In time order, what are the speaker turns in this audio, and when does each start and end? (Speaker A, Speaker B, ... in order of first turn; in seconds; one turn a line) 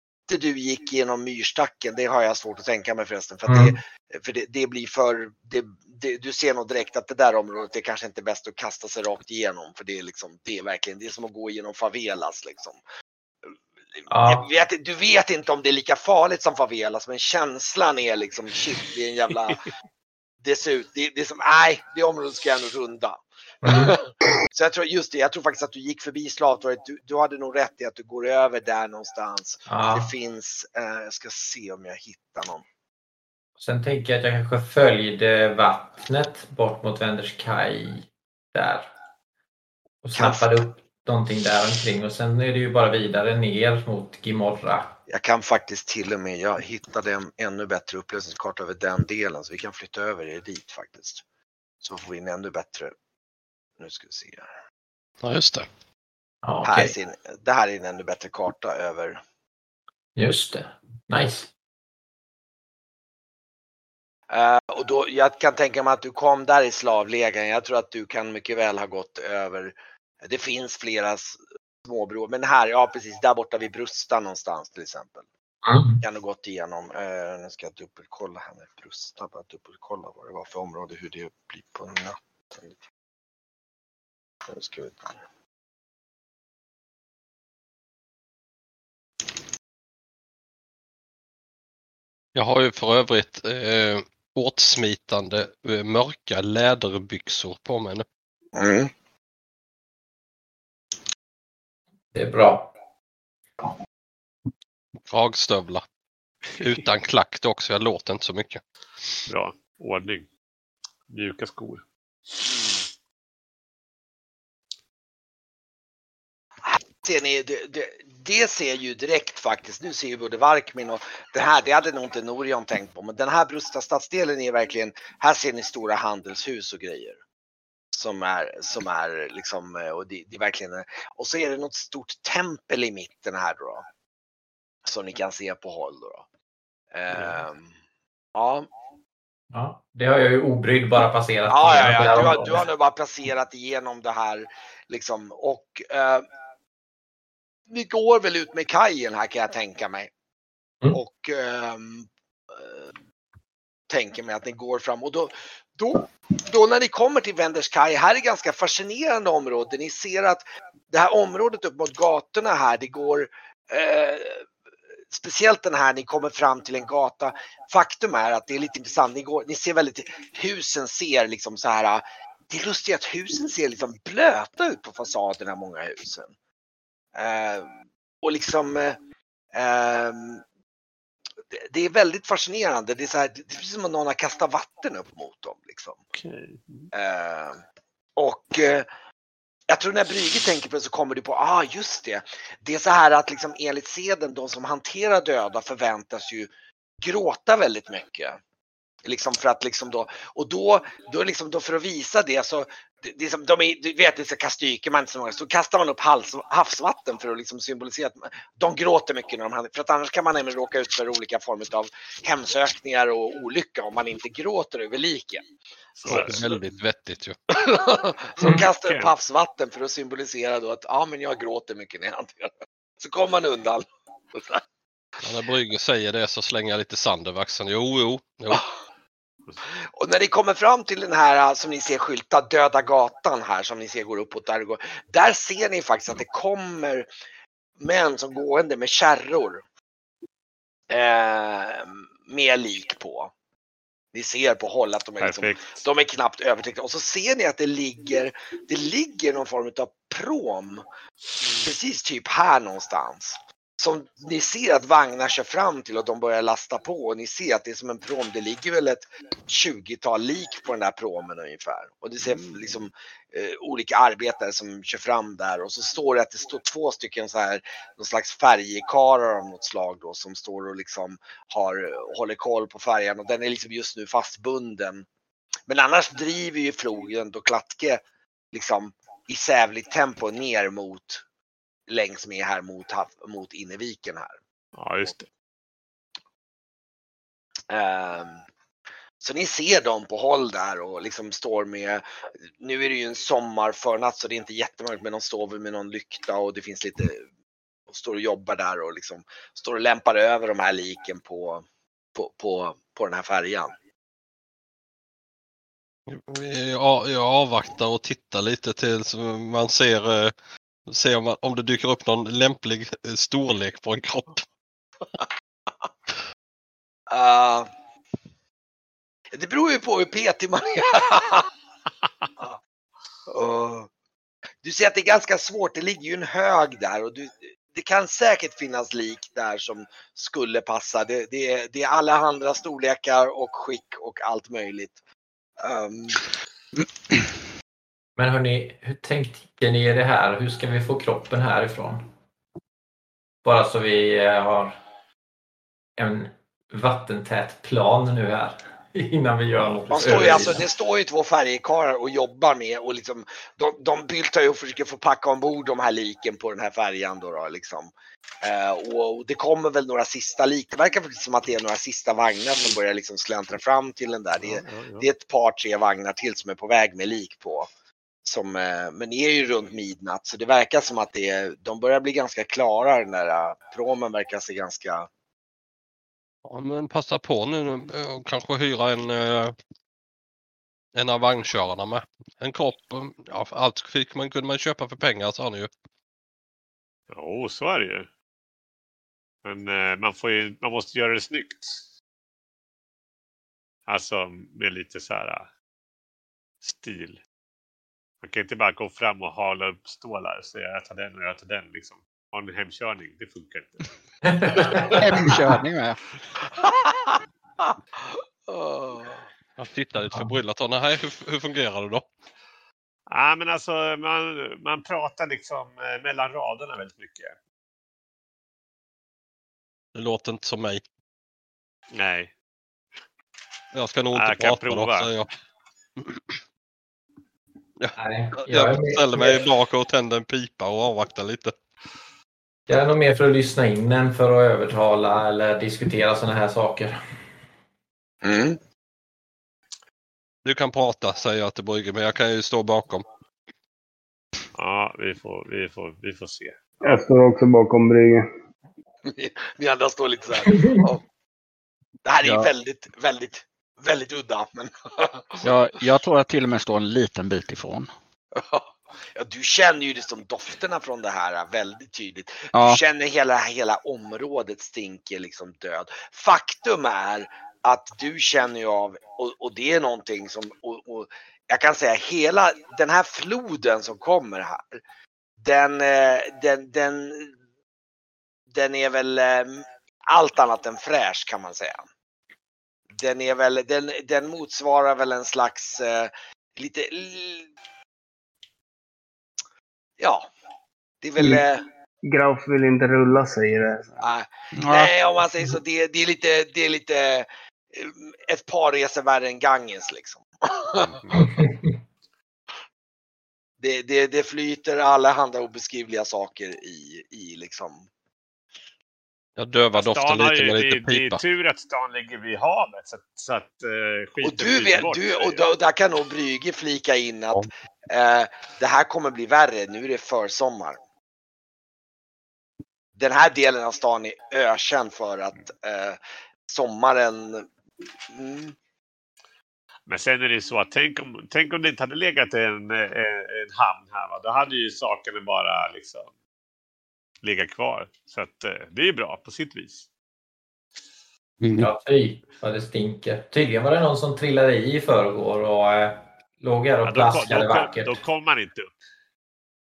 Speaker A: 0.3-12.8
Speaker B: 3.5-3.7
Speaker A: 14.0-19.6
Speaker B: 14.1-14.5
Speaker A: 20.4-32.6
Speaker B: 23.6-23.9
Speaker B: 29.7-30.1
Speaker B: 33.6-38.9
Speaker B: 40.0-44.9
Speaker A: 40.1-40.4
Speaker A: 45.1-51.2
Speaker A: 51.8-52.9
Speaker A: 53.8-54.5
Speaker C: 55.2-55.6
Speaker B: 56.4-56.9
Speaker A: 56.6-59.2
Speaker B: 60.1-61.5
Speaker A: 64.3-75.2
Speaker B: 75.6-76.0
Speaker A: 76.0-82.7
Speaker A: 84.5-85.1
Speaker C: 92.3-98.0
Speaker A: 98.5-98.9
Speaker B: 102.1-102.7
Speaker C: 105.1-105.8
Speaker C: 106.6-108.6
Speaker D: 109.3-110.3
Speaker D: 111.1-112.4
Speaker A: 112.5-112.8
Speaker A: 116.6-127.2
Speaker A: 127.9-133.8
Speaker A: 134.8-136.2
Speaker A: 136.9-137.7
Speaker D: 137.1-137.4
Speaker A: 138.3-138.7
Speaker B: 139.5-142.5
Speaker A: 141.5-146.2
Speaker D: 142.0-142.5
Speaker A: 147.7-150.1
Speaker A: 150.9-152.9
Speaker A: 153.9-164.4
Speaker A: 165.1-176.3
Speaker A: 177.1-179.0
Speaker A: 179.5-180.4
Speaker A: 181.5-186.0
Speaker D: 186.1-186.9
Speaker A: 186.9-187.6
Speaker A: 188.2-188.9
Speaker A: 189.7-196.5
Speaker A: 197.0-198.4
Speaker A: 199.1-215.4
Speaker D: 216.0-216.5
Speaker A: 216.1-216.4
Speaker C: 216.1-217.3
Speaker A: 217.5-224.6
Speaker D: 218.5-219.1
Speaker C: 225.2-228.6
Speaker D: 229.4-229.7
Speaker A: 229.8-237.1
Speaker A: 237.8-239.6
Speaker A: 240.9-243.3
Speaker A: 244.1-250.8
Speaker D: 245.2-245.7
Speaker A: 251.4-275.1
Speaker A: 275.7-278.0
Speaker A: 278.5-281.2
Speaker A: 281.9-284.4
Speaker D: 284.8-285.3
Speaker A: 287.7-288.4
Speaker A: 289.2-297.2
Speaker A: 297.9-303.7
Speaker C: 306.1-310.3
Speaker C: 310.9-314.4
Speaker A: 317.1-317.7
Speaker A: 319.3-321.5
Speaker A: 323.3-323.9
Speaker A: 324.6-335.0
Speaker A: 335.6-336.2
Speaker B: 338.2-342.1
Speaker B: 343.4-344.8
Speaker B: 346.0-350.6
Speaker D: 349.6-350.6
Speaker A: 349.9-367.7
Speaker D: 364.4-365.1
Speaker A: 368.2-375.1
Speaker C: 376.4-379.6
Speaker C: 380.9-385.7
Speaker D: 387.1-388.1
Speaker D: 389.4-391.8
Speaker D: 393.9-395.5
Speaker D: 396.6-397.2
Speaker D: 398.2-403.9
Speaker B: 404.3-404.8
Speaker D: 404.4-405.0
Speaker E: 404.9-406.0
Speaker A: 406.6-409.2
Speaker C: 409.6-412.1
Speaker D: 413.1-417.4
Speaker C: 419.9-420.8
Speaker D: 421.9-422.3
Speaker C: 423.7-425.3
Speaker D: 424.1-425.1
Speaker C: 426.0-426.4
Speaker C: 427.8-431.6
Speaker B: 427.9-429.4
Speaker B: 432.7-437.0
Speaker A: 438.2-438.6
Speaker C: 440.4-443.1
Speaker D: 444.5-447.0
Speaker F: 446.8-448.2
Speaker A: 449.0-451.0
Speaker A: 452.0-455.4
Speaker E: 452.2-452.5
Speaker E: 455.4-457.9
Speaker A: 458.3-474.8
Speaker E: 462.5-462.8
Speaker A: 475.4-477.4
Speaker A: 478.5-481.9
Speaker A: 482.9-487.5
Speaker A: 490.0-490.3
Speaker A: 491.0-491.6
Speaker F: 492.1-494.0
Speaker A: 494.0-501.0
Speaker E: 494.6-494.9
Speaker D: 500.9-501.3
Speaker B: 501.1-501.7
Speaker A: 503.6-507.9
Speaker C: 509.4-511.2
Speaker D: 509.7-515.4
Speaker A: 514.2-520.8
Speaker A: 523.0-527.5
Speaker A: 528.1-528.5
Speaker D: 529.9-536.1
Speaker D: 537.2-539.9
Speaker E: 541.4-541.7
Speaker B: 541.6-548.0
Speaker D: 546.8-548.8